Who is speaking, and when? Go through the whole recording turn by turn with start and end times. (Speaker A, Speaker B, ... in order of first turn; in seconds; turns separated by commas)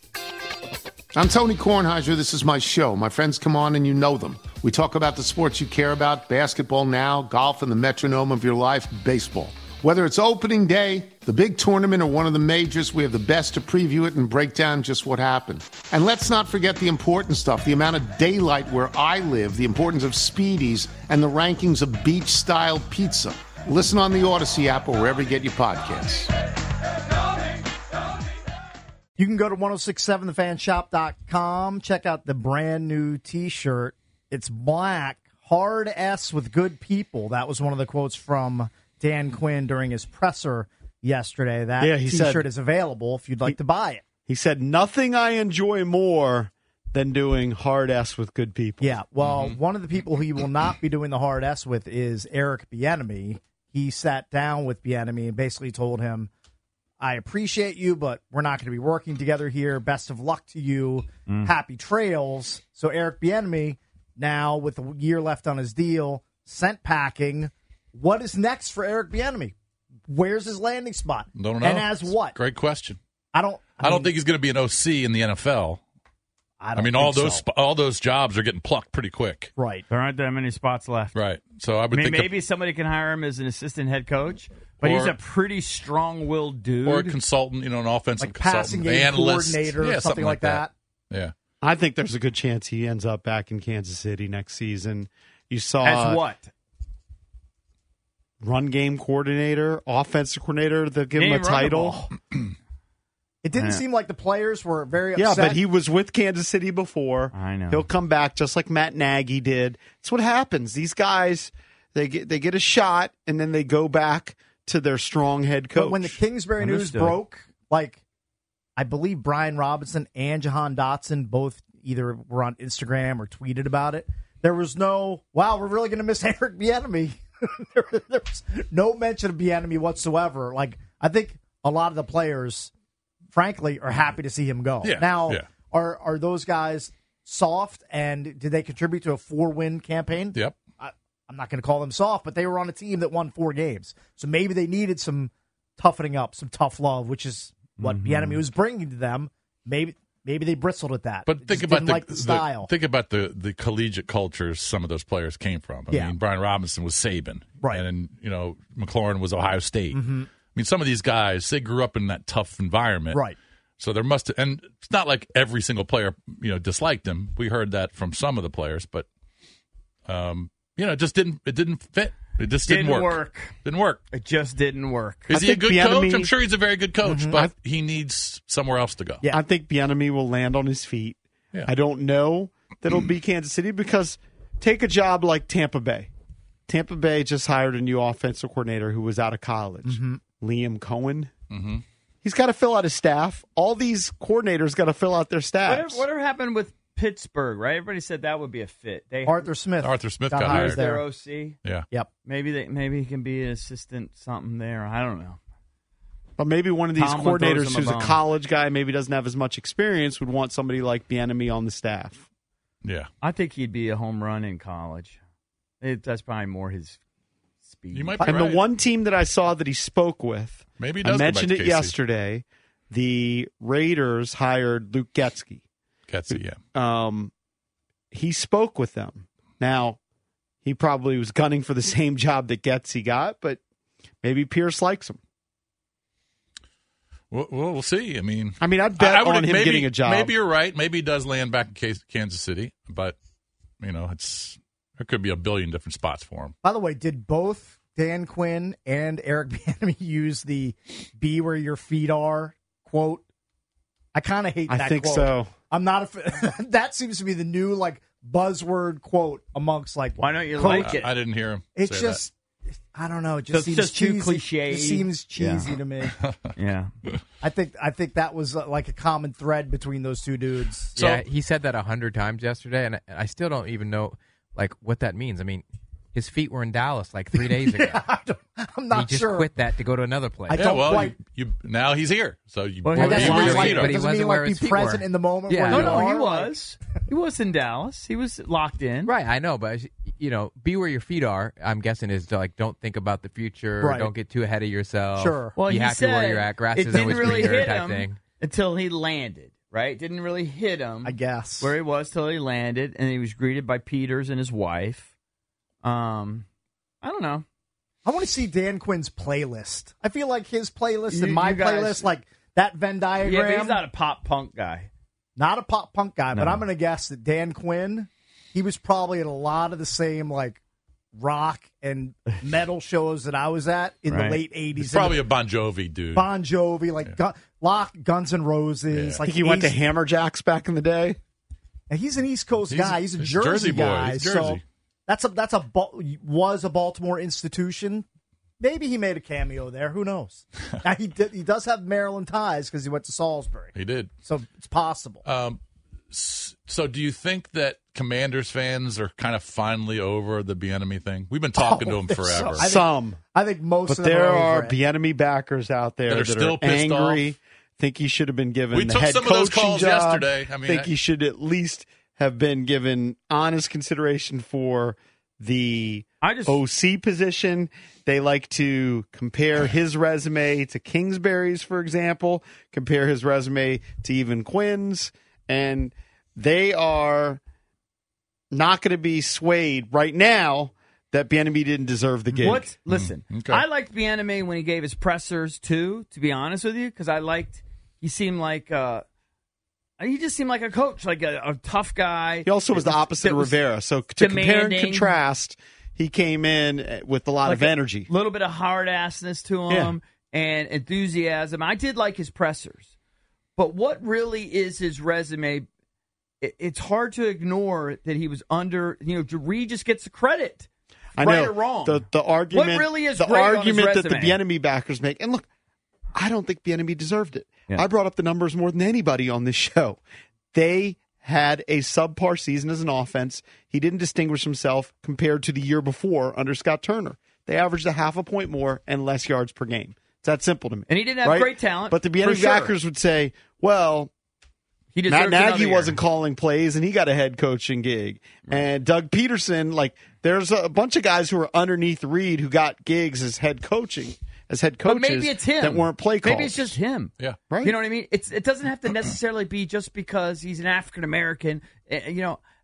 Speaker A: 1.1-26.3, Speaker B: 29.2-44.1, Speaker C: 41.8-42.5, Speaker C: 44.2-49.0, Speaker B: 48.8-56.3, Speaker D: 49.2-49.6, Speaker B: 57.0-69.5, Speaker E: 61.3-61.5, Speaker B: 70.1-72.4, Speaker D: 71.3-73.0, Speaker B: 73.3-74.1, Speaker D: 73.8-75.8, Speaker B: 76.6-77.5, Speaker D: 76.8-79.5, Speaker B: 79.6-79.8, Speaker E: 79.9-81.2, Speaker D: 81.1-82.3, Speaker E: 81.9-87.2, Speaker D: 84.8-85.1, Speaker D: 86.8-91.3, Speaker B: 88.2-90.7, Speaker C: 91.6-96.2, Speaker E: 95.8-96.5, Speaker C: 98.4-102.0, Speaker E: 101.1-102.1, Speaker B: 103.4-105.6, Speaker E: 103.5-103.8, Speaker C: 105.2-116.2, Speaker E: 107.3-107.9, Speaker B: 115.7-118.0, Speaker E: 116.6-117.2, Speaker B: 118.8-132.7, Speaker B: 133.3-152.7, Speaker D: 134.8-135.5, Speaker E: 147.8-148.2, Speaker D: 151.2-163.2, Speaker B: 155.9-156.1, Speaker B: 159.9-160.3, Speaker D: 163.8-169.1, Speaker D: 170.1-174.0, Speaker E: 172.6-173.5, Speaker E: 174.1-175.4, Speaker D: 175.3-179.3, Speaker C: 175.3-176.3, Speaker B: 177.0-177.4, Speaker C: 179.3-186.1, Speaker C: 186.7-191.3, Speaker B: 189.8-190.2, Speaker D: 191.5-191.8, Speaker C: 192.2-196.0, Speaker E: 195.6-199.5, Speaker B: 199.2-201.3, Speaker D: 199.8-200.8, Speaker E: 200.5-201.6, Speaker E: 202.2-205.4, Speaker C: 206.4-212.2, Speaker E: 206.9-208.2, Speaker D: 212.8-213.1, Speaker E: 213.2-215.2, Speaker E: 215.8-217.0, Speaker E: 217.7-218.4, Speaker D: 217.9-218.6, Speaker C: 218.2-225.6, Speaker D: 220.8-221.9, Speaker D: 226.1-226.6, Speaker C: 226.3-227.3, Speaker C: 228.1-230.0, Speaker C: 230.6-233.6, Speaker C: 234.2-235.2, Speaker D: 237.3-243.2, Speaker C: 238.6-240.3, Speaker D: 243.8-246.5, Speaker B: 246.6-253.2, Speaker B: 254.1-261.0, Speaker C: 254.7-255.5, Speaker E: 260.2-261.1, Speaker D: 260.7-262.2, Speaker B: 261.8-262.3, Speaker B: 262.9-266.1, Speaker E: 263.5-265.7, Speaker E: 266.6-266.9, Speaker B: 267.4-271.0, Speaker D: 270.9-271.3, Speaker F: 271.0-278.1, Speaker B: 277.3-279.5, Speaker F: 278.9-280.8, Speaker B: 280.4-281.2, Speaker D: 280.6-283.9, Speaker E: 282.8-283.5, Speaker B: 282.9-286.6, Speaker F: 283.1-286.0, Speaker E: 285.7-289.1, Speaker F: 289.0-298.2, Speaker B: 293.8-294.1, Speaker B: 295.2-295.6, Speaker E: 295.6-305.1, Speaker B: 301.0-301.7, Speaker E: 305.8-306.4, Speaker E: 307.0-307.4, Speaker B: 308.0-313.8, Speaker E: 311.1-312.1, Speaker E: 313.2-314.9, Speaker B: 315.4-320.6, Speaker E: 316.3-316.6, Speaker B: 321.1-325.3, Speaker E: 324.1-324.4, Speaker D: 324.8-326.3, Speaker B: 326.1-329.8, Speaker D: 328.9-329.2, Speaker C: 329.2-331.2, Speaker B: 331.9-338.1, Speaker D: 332.7-334.6, Speaker B: 338.6-345.2, Speaker D: 343.7-344.1, Speaker D: 345.2-345.6, Speaker D: 346.1-352.7, Speaker B: 351.6-354.8, Speaker C: 352.5-353.2, Speaker C: 353.9-377.4, Speaker D: 356.1-357.3, Speaker D: 358.7-360.9, Speaker E: 366.2-366.6, Speaker C: 378.5-382.7, Speaker B: 382.3-382.6, Speaker E: 382.4-389.0, Speaker D: 382.9-383.6, Speaker E: 390.0-393.6, Speaker C: 392.4-398.1, Speaker E: 394.1-395.1, Speaker E: 397.4-402.9, Speaker C: 399.7-399.9, Speaker E: 403.6-405.7, Speaker E: 406.4-414.4, Speaker C: 411.2-415.4, Speaker C: 416.1-420.0, Speaker C: 420.5-434.1, Speaker E: 430.9-432.7, Speaker E: 434.9-436.0, Speaker C: 435.1-446.8, Speaker E: 444.8-452.4, Speaker D: 447.2-447.5, Speaker C: 447.5-447.7